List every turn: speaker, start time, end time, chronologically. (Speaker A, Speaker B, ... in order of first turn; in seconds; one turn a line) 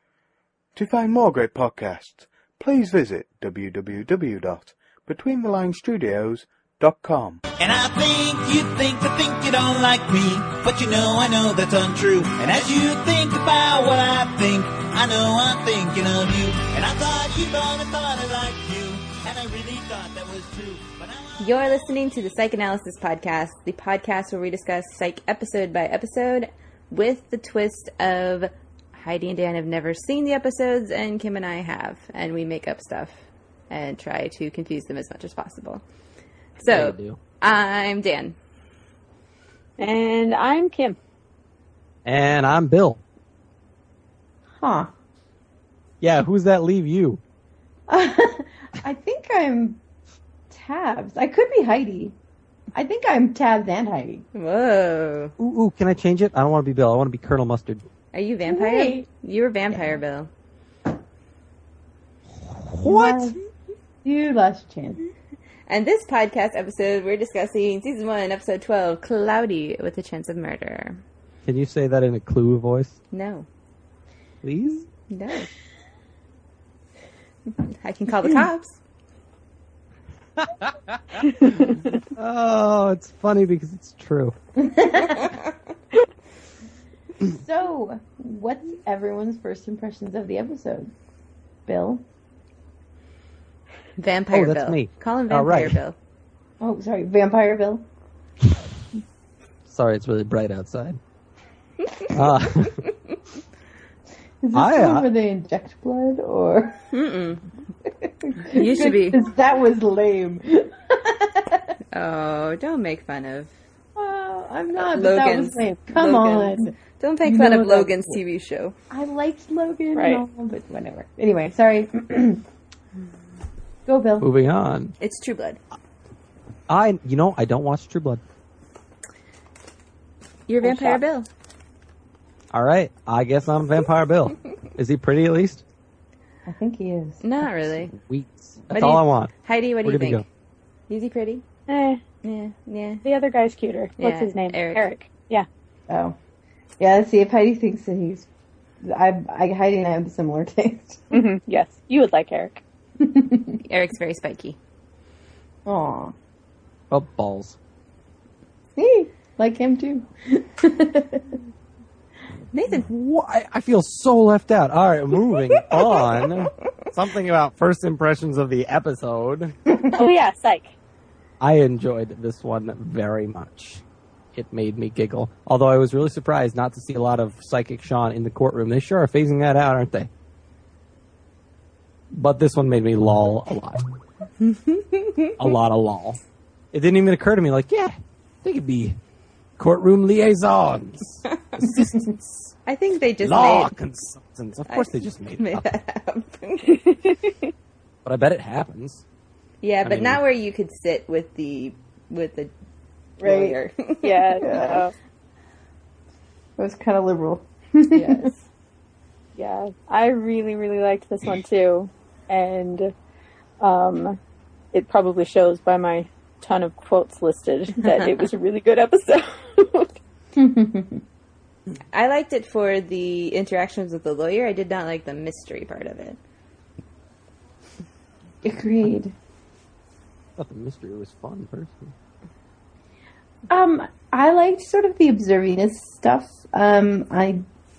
Speaker A: 0.7-7.4
Speaker B: 7.6-21.4
Speaker C: 21.4-35.8
Speaker C: 36.6-38.4
Speaker D: 36.6-37.2
Speaker E: 39.8-41.0
Speaker D: 42.0-43.0
Speaker F: 44.6-44.9
Speaker D: 46.0-47.2
Speaker F: 47.9-49.8
Speaker F: 50.5-52.1
Speaker F: 52.7-54.2
Speaker C: 54.3-55.3
Speaker D: 55.4-57.9
Speaker C: 58.1-60.3
Speaker F: 58.4-59.1
Speaker D: 62.6-63.3
Speaker F: 62.8-63.4
Speaker F: 64.0-65.0
Speaker C: 65.7-71.0
Speaker D: 71.4-73.0
Speaker C: 73.1-73.5
Speaker D: 74.4-74.8
Speaker C: 75.1-75.5
Speaker C: 77.6-78.8
Speaker D: 80.4-84.3
Speaker F: 84.5-85.4
Speaker F: 87.2-90.9
Speaker F: 91.7-92.0
Speaker C: 94.0-96.0
Speaker D: 94.3-95.8
Speaker F: 96.6-97.8
Speaker D: 99.7-101.0
Speaker D: 102.1-102.8
Speaker F: 104.4-106.8
Speaker D: 104.5-105.1
Speaker C: 106.9-107.5
Speaker F: 107.9-111.7
Speaker C: 108.5-109.2
Speaker C: 111.9-113.5
Speaker F: 114.0-118.2
Speaker C: 114.8-118.8
Speaker F: 118.9-122.4
Speaker E: 119.9-120.2
Speaker F: 123.8-124.3
Speaker D: 124.2-124.9
Speaker C: 125.0-125.6
Speaker D: 126.7-128.2
Speaker C: 130.5-131.3
Speaker F: 130.6-131.0
Speaker D: 132.5-135.6
Speaker F: 136.4-137.2
Speaker C: 137.2-137.9
Speaker D: 137.9-139.3
Speaker C: 138.7-140.2
Speaker D: 139.8-140.2
Speaker C: 140.9-141.4
Speaker E: 141.7-142.0
Speaker C: 142.2-143.0
Speaker E: 143.0-145.5
Speaker C: 144.0-144.9
Speaker F: 145.9-146.2
Speaker F: 146.8-148.3
Speaker F: 148.8-151.0
Speaker E: 151.1-152.6
Speaker F: 153.0-153.6
Speaker C: 153.6-154.6
Speaker F: 155.7-156.1
Speaker D: 156.9-157.6
Speaker F: 158.8-161.4
Speaker C: 162.5-162.8
Speaker D: 162.7-169.6
Speaker C: 165.7-166.5
Speaker E: 169.9-170.7
Speaker D: 171.4-173.8
Speaker D: 174.3-180.1
Speaker D: 182.1-183.8
Speaker C: 184.4-185.3
Speaker D: 185.4-186.2
Speaker D: 186.7-189.0
Speaker D: 189.6-192.5
Speaker C: 192.7-193.7
Speaker D: 193.2-195.7
Speaker C: 194.7-197.0
Speaker D: 198.0-199.0
Speaker C: 199.6-202.5
Speaker D: 199.8-200.2
Speaker C: 203.2-204.4
Speaker F: 203.2-203.6
Speaker E: 204.0-204.9
Speaker F: 204.4-204.8
Speaker F: 206.6-208.3
Speaker C: 207.9-208.4
Speaker E: 209.3-212.9
Speaker E: 213.6-214.2
Speaker E: 214.7-219.9
Speaker C: 217.8-218.1
Speaker F: 220.3-221.0
Speaker C: 221.9-226.2
Speaker F: 228.4-229.1
Speaker D: 230.4-231.9
Speaker F: 233.5-237.4